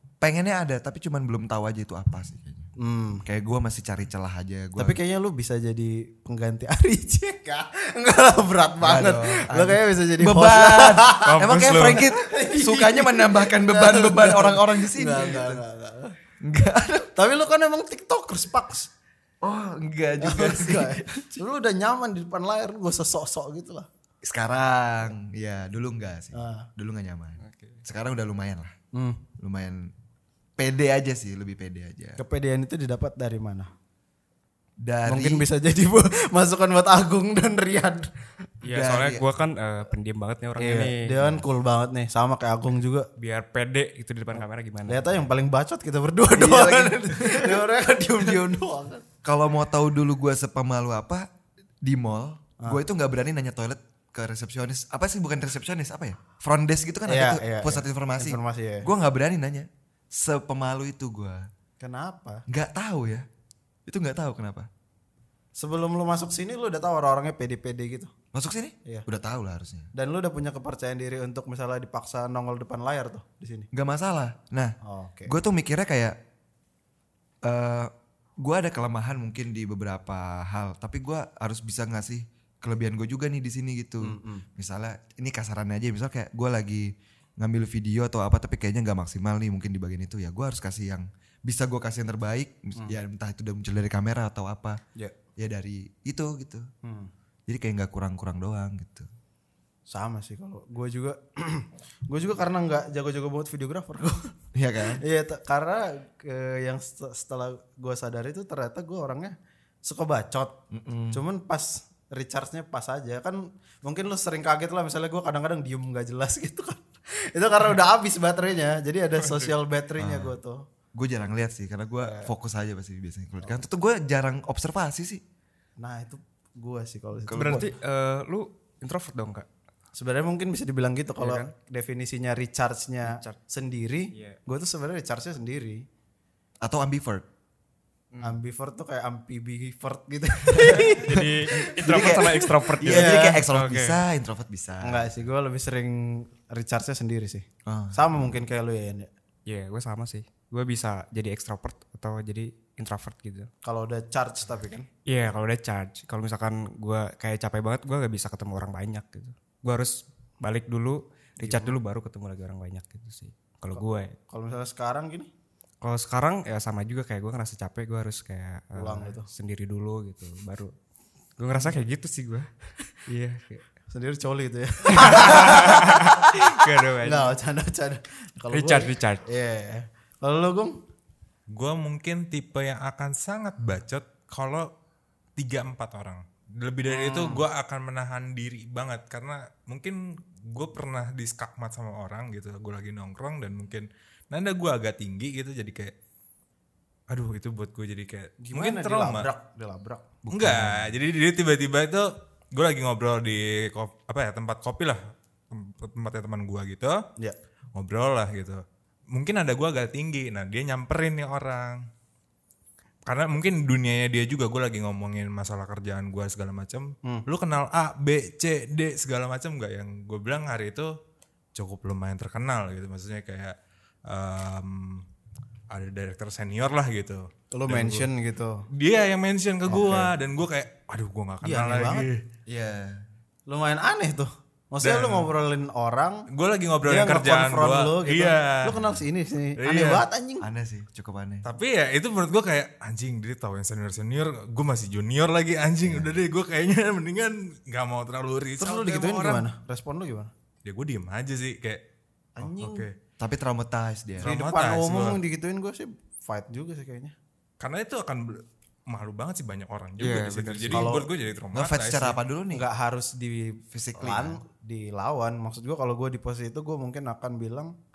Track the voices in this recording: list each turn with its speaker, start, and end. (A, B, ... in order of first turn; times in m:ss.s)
0:00.2-0:02.7 A
0:02.8-0:03.2 B
0:03.2-0:05.0 A
0:04.8-0:11.4 B
0:08.8-0:15.6 A
0:11.2-0:12.1 C
0:12.0-0:16.2 B
0:16.4-0:17.1 A
0:17.2-0:18.9 B
0:19.4-0:21.4 A
0:20.2-0:23.9 B
0:24.2-0:28.7 A
0:26.3-0:26.7 B
0:27.4-0:27.8 C
0:28.9-0:29.2 B
0:29.4-0:29.9 A
0:30.6-0:32.2 A
0:32.2-0:33.7 B
0:34.8-0:35.5 A
0:35.1-0:38.1 B
0:38.6-0:41.3 C
0:38.6-0:39.2 A
0:40.6-0:43.1 B
0:43.2-0:45.3 C
0:44.4-0:49.0 B
0:46.3-0:48.4 A
0:49.2-0:51.3 A
0:51.8-1:01.5 A
0:57.1-0:58.9 B
1:01.8-1:02.4 B
1:02.5-1:03.2 A
1:03.9-1:04.7 A
1:05.6-1:08.1 B
1:08.3-1:09.9 A
1:10.0-1:13.7 B
1:13.7-1:14.8 A
1:14.8-1:15.3 B
1:15.3-1:16.2 A
1:17.4-1:34.8 A
1:24.0-1:24.4 B
1:35.4-1:36.7 A
1:36.8-1:37.1 B
1:37.5-1:39.1 A
1:39.9-1:44.3 B
1:44.5-1:45.0 A
1:45.0-1:50.6 B
1:50.7-1:51.2 A
1:51.1-2:00.6 B
2:00.0-2:00.4 A
2:00.9-2:05.2 A
2:02.0-2:02.3 B
2:05.8-2:07.7 B
2:07.3-2:07.6 A
2:07.3-2:09.5 C
2:10.0-2:15.8 B
2:11.2-2:11.5 C
2:13.0-2:13.4 C
2:14.1-2:14.4 C
2:16.6-2:17.3 A
2:18.1-2:18.4 C
2:18.2-2:22.1 B
2:20.6-2:24.0 C
2:20.8-2:25.2 A
2:22.8-2:23.4 B
2:24.8-2:29.1 B
2:27.6-2:28.4 A
2:29.5-2:33.5 C
2:33.6-2:34.9 B
2:35.1-2:44.1 C
2:41.4-2:41.8 B
2:43.8-2:45.3 B
2:45.8-2:50.7 C
2:48.8-2:49.3 B
2:51.4-2:52.5 C
2:53.1-2:53.6 C
2:53.9-3:00.8 B
2:54.9-2:57.4 C
2:58.5-2:59.2 C
3:01.5-3:04.7 D
3:05.4-3:15.9 D
3:06.9-3:07.4 B
3:17.1-3:19.3 D
3:18.4-3:20.1 B
3:20.3-3:20.9 A
3:20.3-3:27.0 D
3:27.7-3:31.8 D
3:33.1-3:40.9 D
3:41.6-3:43.6 D
3:44.1-3:45.0 D
3:45.7-3:48.1 D
3:47.5-3:48.6 B
3:48.7-3:52.2 D
3:49.7-3:50.1 B
3:51.4-3:52.1 B
3:52.5-3:53.0 A
3:53.5-3:56.3 B
3:54.8-3:55.3 D
3:56.3-3:58.8 D
3:56.8-4:00.5 B
3:59.6-4:00.0 D
4:00.4-4:01.5 A
4:01.4-4:09.5 D
4:05.8-4:06.2 A
4:08.6-4:10.3 B
4:10.6-4:11.8 D
4:12.4-4:12.9 B
4:12.4-4:12.9 D
4:13.2-4:14.4 A
4:14.2-4:15.2 D
4:14.2-4:17.1 B
4:17.6-4:22.2 D
4:20.0-4:20.9 C
4:20.7-4:21.1 B
4:21.5-4:22.6 A
4:22.5-4:27.7 B
4:23.7-4:24.4 A